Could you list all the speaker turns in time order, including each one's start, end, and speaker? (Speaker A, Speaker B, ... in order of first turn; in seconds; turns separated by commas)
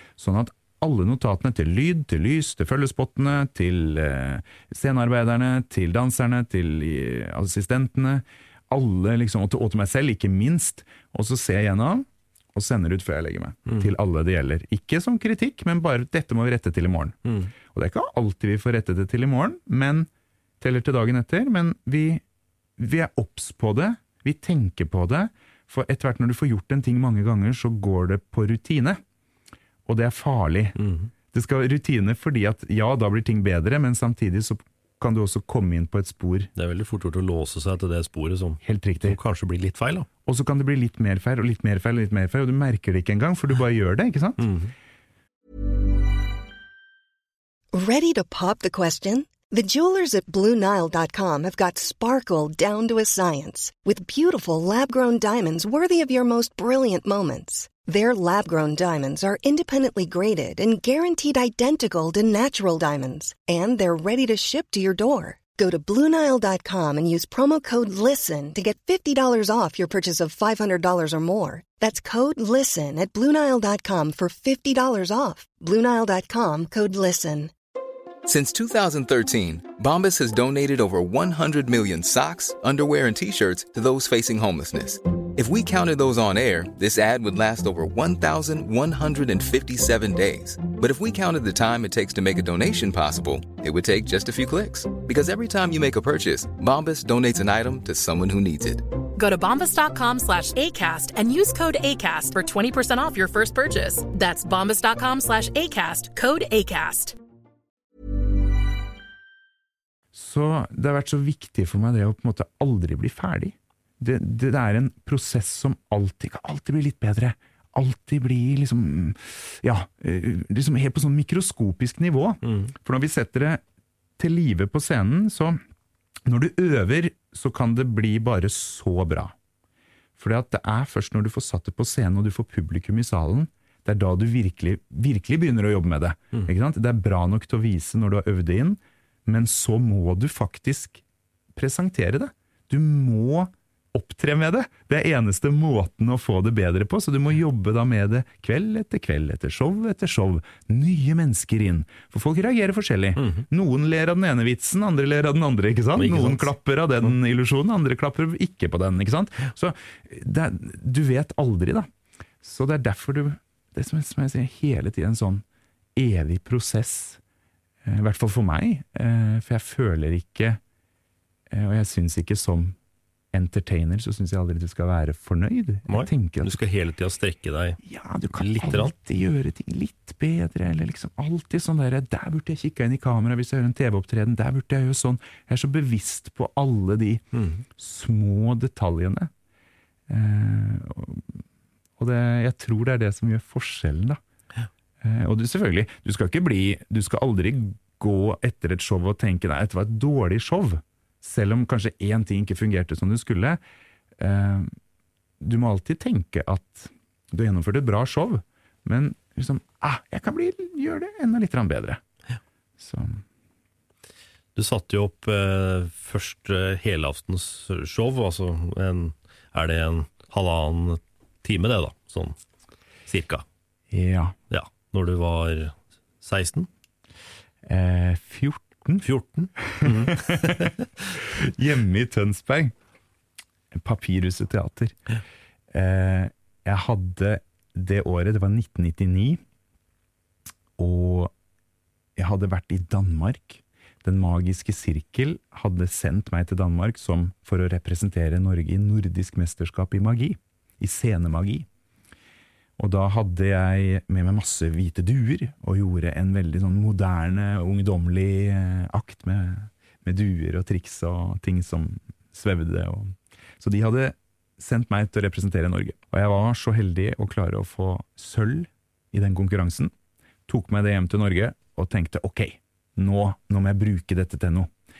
Speaker A: 0.2-20.1, Speaker B: 17.2-17.5, Speaker A: 20.6-22.2, Speaker A: 22.8-29.0, Speaker A: 29.9-30.8, Speaker B: 30.8-31.1, Speaker A: 31.3-36.5, Speaker B: 36.5-40.1, Speaker A: 38.6-39.2, Speaker A: 40.2-44.5, Speaker B: 44.4-44.7, Speaker C: 47.7-77.5, Speaker D: 78.2-98.8, Speaker E: 99.2-107.2, Speaker A: 110.1-123.6, Speaker B: 122.4-122.7, Speaker A: 124.2-125.6, Speaker A: 126.2-129.3, Speaker A: 130.2-141.0, Speaker A: 141.5-161.9, Speaker B: 153.2-153.4, Speaker B: 155.9-156.5, Speaker A: 162.4-165.4, Speaker A: 165.9-167.2, Speaker A: 167.8-170.6, Speaker A: 171.5-172.8, Speaker A: 173.3-176.6, Speaker B: 175.9-177.8, Speaker A: 177.8-187.2, Speaker B: 178.4-178.9, Speaker B: 187.3-187.6, Speaker A: 187.8-189.3, Speaker A: 190.1-191.4, Speaker A: 192.0-194.2, Speaker A: 195.0-203.6, Speaker A: 204.2-204.7, Speaker A: 205.4-212.0, Speaker A: 212.8-213.2, Speaker B: 214.6-222.3, Speaker B: 223.1-223.4, Speaker A: 223.9-224.4, Speaker B: 224.5-226.7, Speaker A: 227.6-229.0, Speaker B: 229.0-230.8, Speaker A: 229.7-230.7, Speaker A: 231.4-232.7, Speaker A: 233.7-234.9, Speaker A: 235.7-239.4, Speaker A: 240.8-241.3, Speaker A: 242.2-251.7, Speaker A: 252.8-269.9, Speaker A: 270.5-274.7